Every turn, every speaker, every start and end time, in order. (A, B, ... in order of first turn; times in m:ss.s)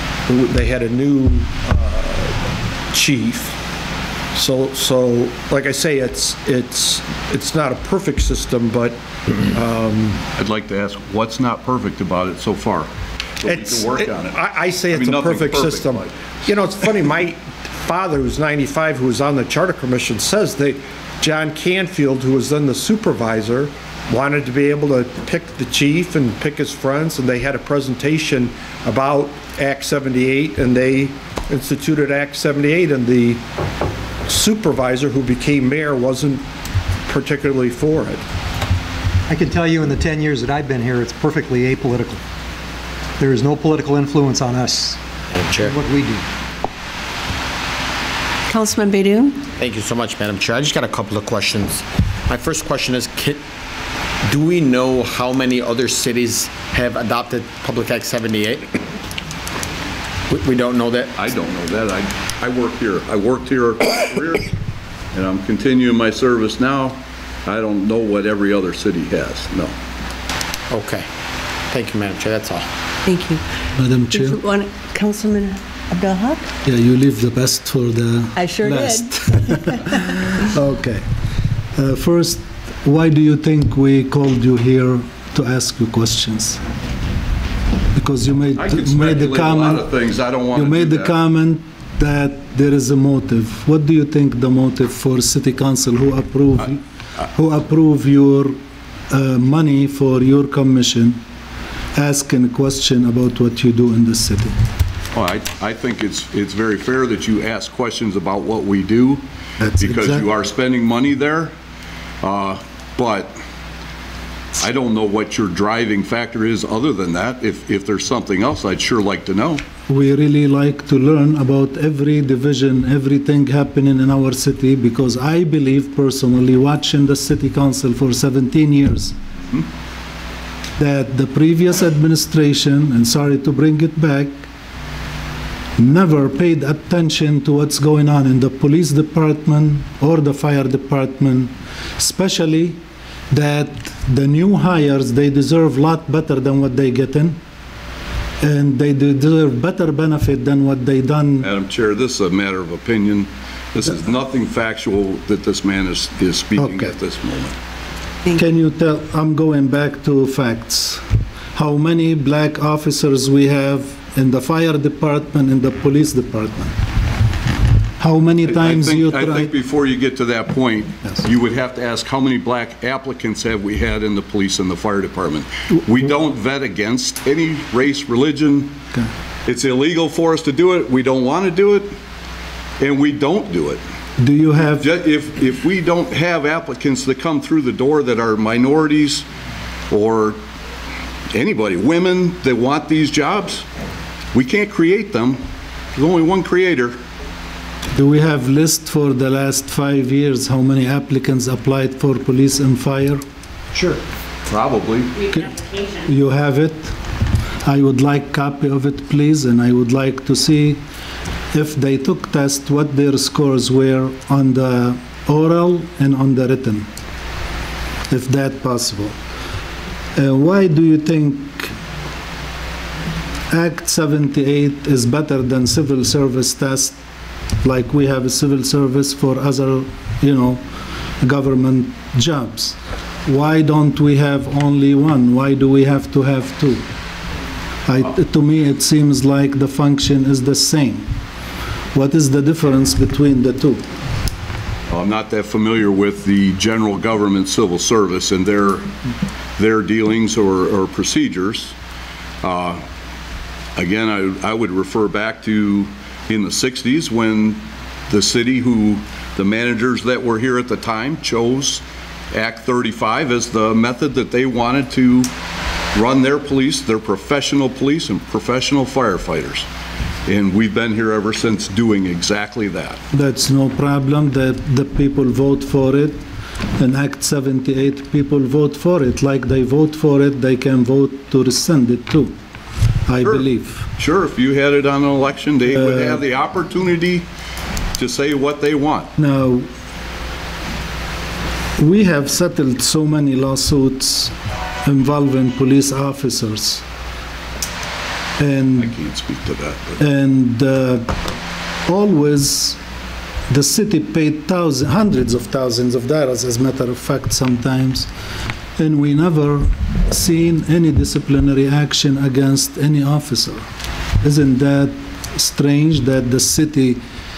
0:00.3-0:03.6 A
0:04.3-0:10.2 A
0:10.4-0:12.9 B
0:13.4-0:16.1 B
0:13.4-0:33.4 A
0:34.3-0:36.4 A
0:37.1-0:38.2 A
0:39.3-0:42.2 C
0:43.2-0:45.0 C
0:45.3-0:45.8 D
0:45.6-0:46.2 C
0:48.5-0:49.4 E
0:49.6-0:53.4 D
0:54.3-0:58.8 D
1:00.3-1:01.1 D
1:01.2-1:04.5 B
1:05.1-1:09.7 B
1:10.7-1:11.1 D
1:11.7-1:12.7 D
1:13.1-1:13.4 E
1:13.8-1:14.4 F
1:14.1-1:16.5 E
1:16.6-1:21.0 F
1:18.4-1:20.0 E
1:21.8-1:26.6 F
1:28.0-1:30.0 F
1:28.5-1:31.2 B
1:30.5-1:36.8 F
1:37.3-1:38.6 F
1:39.1-1:41.2 F
1:42.0-1:44.6 F
1:45.1-1:49.2 B
1:49.6-1:50.3 F
1:49.8-1:51.5 B
1:52.2-1:53.4 B
1:54.6-1:59.6 B
1:59.9-2:09.2 F
2:10.8-2:14.4 F
2:15.8-2:22.8 F
2:23.3-2:27.4 F
2:28.4-2:31.5 F
2:31.4-2:37.5 B
2:36.6-2:37.0 F
2:38.3-2:46.7 F
2:48.0-2:49.5 F
2:48.4-2:58.8 B
2:59.5-3:01.9 B
3:02.8-3:03.8 B
3:04.2-3:04.9 F
3:04.8-3:09.3 B
3:09.9-3:10.4 B
3:11.3-3:13.7 B
3:14.3-3:15.4 B
3:15.9-3:17.0 B
3:18.0-3:23.2 F
3:24.5-3:25.2 B
3:25.2-3:27.0 F
3:27.6-3:30.8 F
3:31.5-3:36.9 F
3:38.1-3:39.2 F
3:40.2-3:41.7 F
3:43.5-3:47.0 F
3:47.6-3:50.7 F
3:51.2-3:56.8 F
3:57.9-4:01.1 F
4:01.9-4:03.8 F
4:04.9-4:08.9 B
4:09.6-4:11.8 B
4:12.4-4:12.8 B
4:13.8-4:25.3 B
4:25.9-4:29.7 B
4:30.3-4:33.0 B
4:33.1-4:36.2 F
4:36.8-4:42.3 F
4:43.1-4:43.8 F
4:43.2-4:47.3 B
4:45.7-4:46.2 F
4:48.0-4:49.1 B
4:49.2-4:49.7 F
4:51.8-4:54.3 F
4:54.8-4:56.8 F
4:58.4-4:59.0 F
4:58.8-5:00.0 B
5:00.0-5:01.2 F
5:01.9-5:02.8 F
5:03.5-5:08.1 F
5:08.8-5:13.7 F
5:14.2-5:17.0 F